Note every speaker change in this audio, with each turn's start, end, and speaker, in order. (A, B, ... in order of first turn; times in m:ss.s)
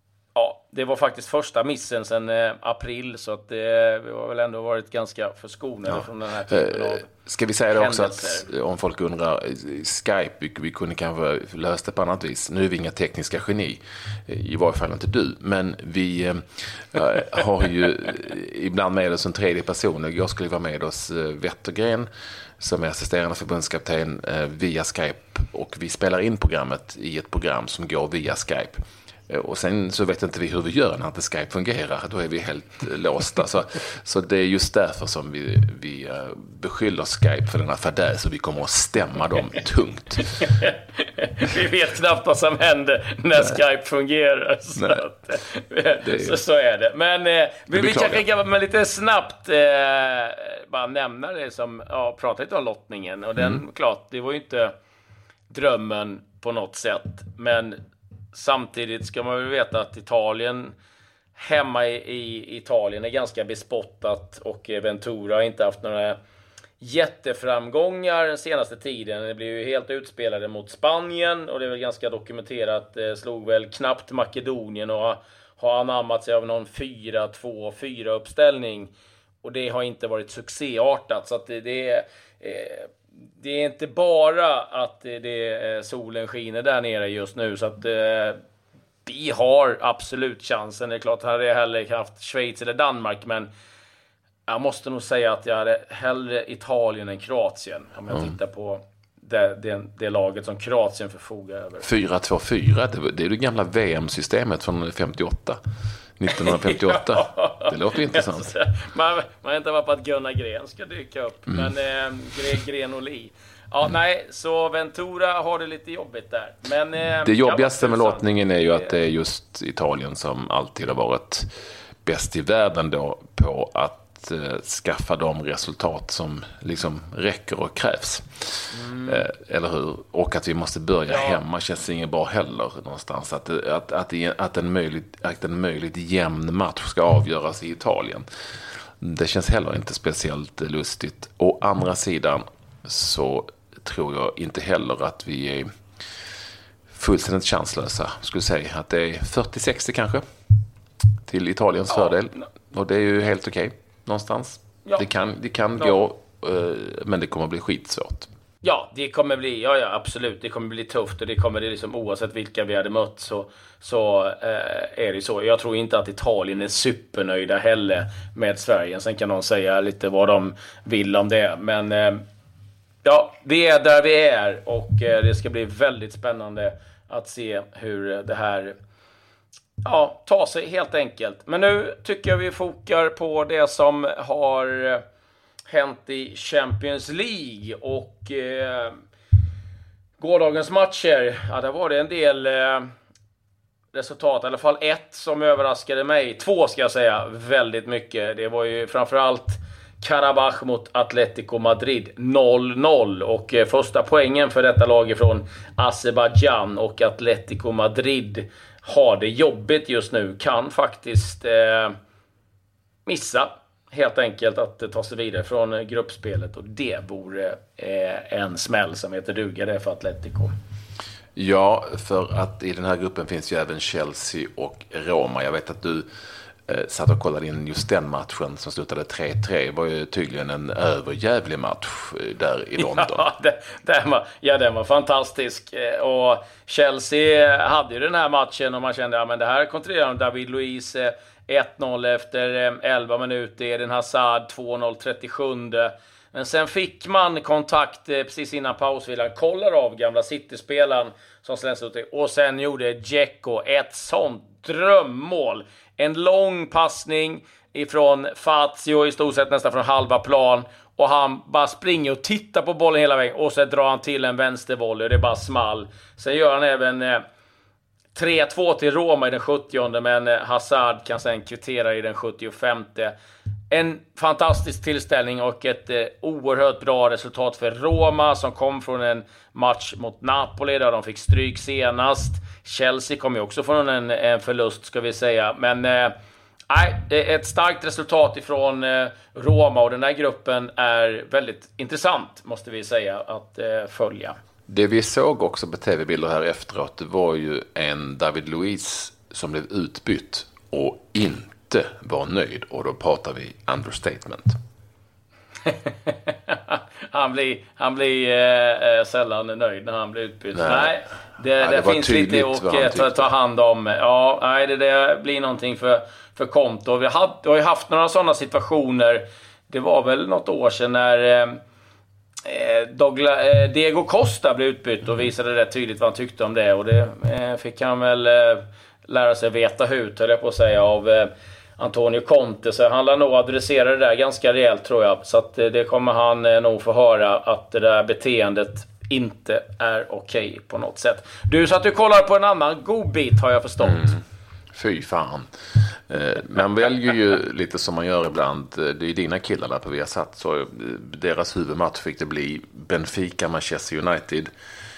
0:00.3-0:07.1 A
0:05.9-0:22.1 B
0:07.7-0:08.5 A
0:22.6-0:28.7 B
0:29.3-0:40.4 B
0:40.3-0:54.7 A
0:44.8-0:45.1 B
0:46.0-0:46.4 B
0:47.7-0:48.2 B
0:55.5-0:57.8 A
0:58.3-1:00.7 A
1:01.4-1:06.2 A
1:06.8-1:18.9 A
1:19.4-1:28.4 A
1:29.0-1:33.5 A
1:34.5-1:41.8 A
1:41.8-1:45.6 B
1:46.2-1:48.5 B
1:46.3-1:59.0 A
1:57.2-2:01.5 B
2:02.0-2:18.2 B
2:08.7-2:09.2 A
2:11.1-2:11.4 A
2:19.0-2:25.7 B
2:26.9-2:30.2 B
2:31.3-2:38.3 B
2:38.6-2:52.2 A
2:53.0-2:58.7 A
2:59.8-3:05.0 A
3:05.7-3:09.0 A
3:10.2-3:12.9 A
3:13.9-3:31.9 A
3:33.0-3:40.5 A
3:41.4-3:46.0 B
3:46.7-3:53.3 B
3:52.8-4:27.2 A
4:28.1-4:33.1 A
4:33.7-4:46.1 A
4:46.7-4:54.3 A
4:54.7-5:04.5 B
5:05.6-5:21.6 A
5:10.5-5:11.0 B
5:11.6-5:13.3 B
5:22.4-5:44.1 A
5:43.8-5:44.2 B
5:44.7-5:45.5 B
5:46.1-5:54.5 B